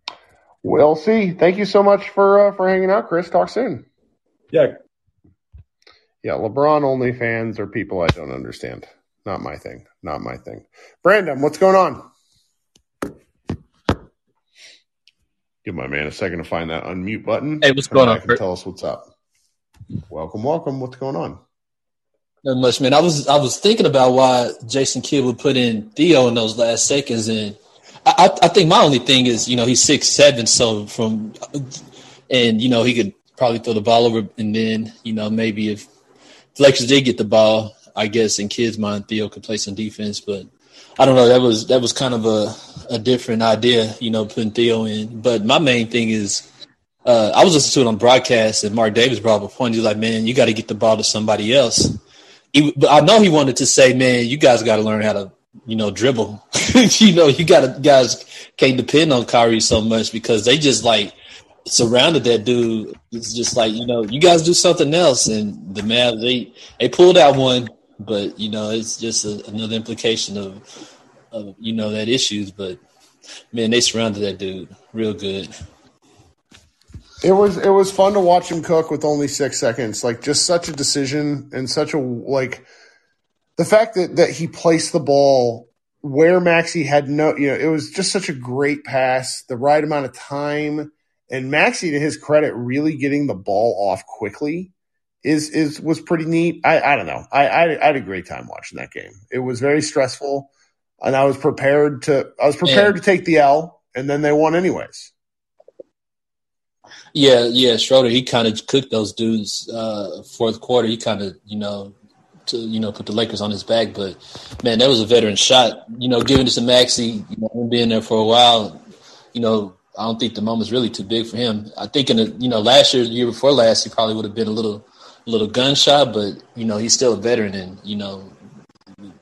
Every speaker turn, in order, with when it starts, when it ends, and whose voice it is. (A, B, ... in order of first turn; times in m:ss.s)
0:00.6-0:03.8 A
0:06.2-0:12.1 A
0:15.6-0:19.1 A
0:17.6-0:18.4 B
0:20.1-0:21.4 A
0:22.4-0:35.9 B
0:36.6-0:46.4 B
0:47.0-0:52.0 B
0:52.5-1:01.1 B
1:01.6-1:10.6 B
1:11.3-1:12.8 B
1:13.5-1:15.5 B
1:17.2-1:22.6 A
1:23.6-1:34.7 A
1:35.2-1:45.1 A
1:42.6-1:43.0 B
1:47.1-1:51.9 B
1:52.5-1:58.8 B
1:59.3-2:08.4 B